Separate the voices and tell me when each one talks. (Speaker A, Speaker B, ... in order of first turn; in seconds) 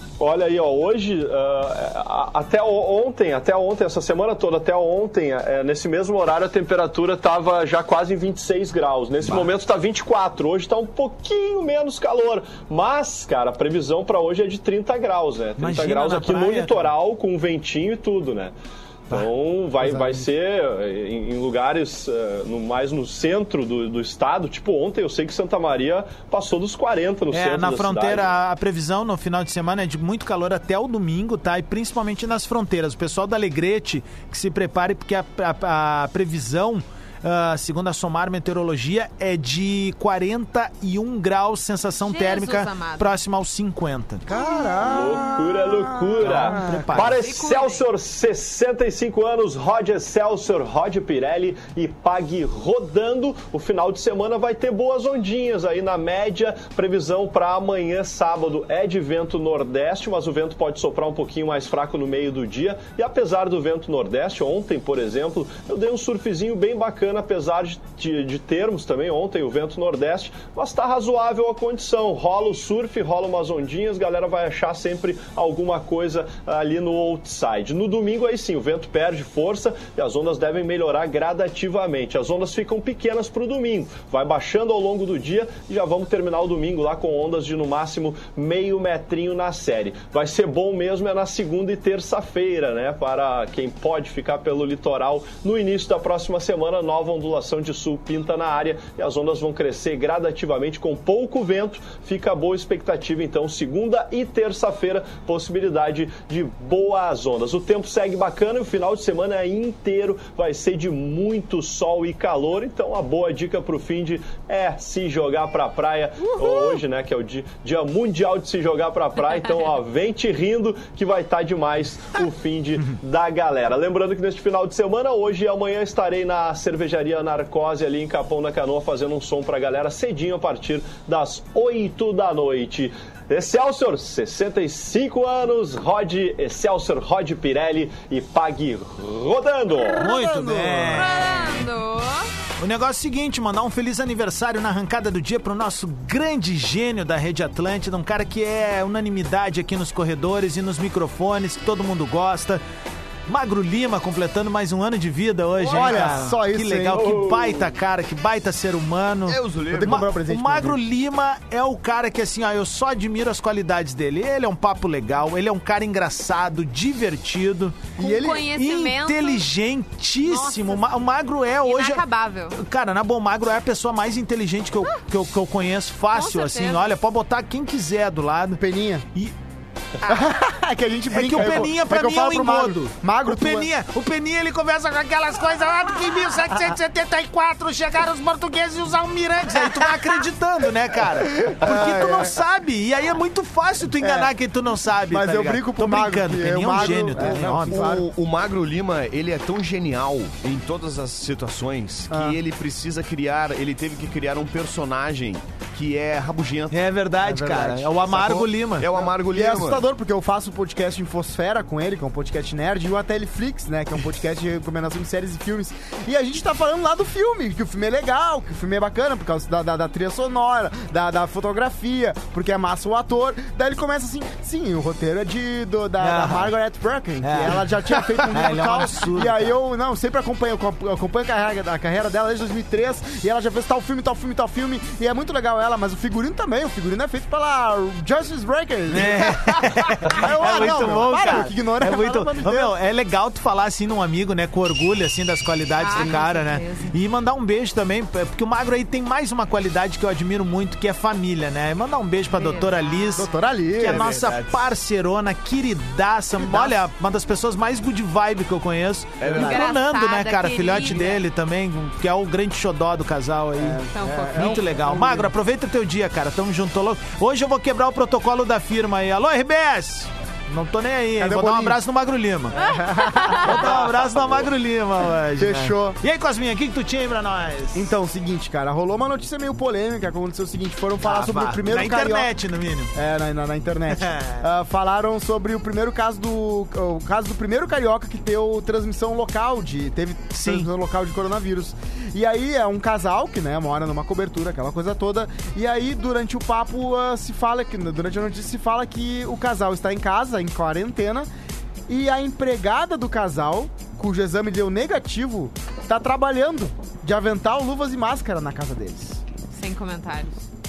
Speaker A: 0.2-18.5, 19.1-28.3, 44.8-140.0, 156.9-157.7
Speaker B: 15.6-16.8, 27.3-44.2, 46.2-47.2, 139.9-141.4, 142.6-152.6, 153.3-167.9, 168.5-178.6, 181.1-197.9, 206.7-208.9, 226.0-226.5, 227.2-229.4, 238.9-272.6, 273.3-277.9, 281.0-282.9, 284.0-284.4, 290.4-290.7
Speaker C: 42.0-43.1, 47.0-47.9, 140.9-142.3, 168.0-169.5, 170.2-171.0, 171.6-172.6, 176.1-176.9, 245.8-246.9, 252.3-253.3, 259.3-261.2, 263.9-264.7, 272.6-273.6, 309.5-310.4
Speaker D: 44.3-47.0, 116.4-116.8, 140.0-141.3, 155.7-157.0, 159.7-160.8, 168.0-168.5, 178.6-179.1, 180.1-183.7, 191.4-192.4, 194.0-194.3, 195.1-198.1, 202.1-202.4, 207.2-207.9, 208.9-242.7, 253.2-254.2, 256.4-256.8, 263.6-265.3, 271.2-271.8, 272.5-274.4, 275.4-276.0, 277.7-282.3, 282.9-301.3, 301.9-309.2
Speaker E: 155.6-156.0, 159.3-160.1, 196.8-206.9, 208.0-209.8, 253.8-254.7, 259.2-259.7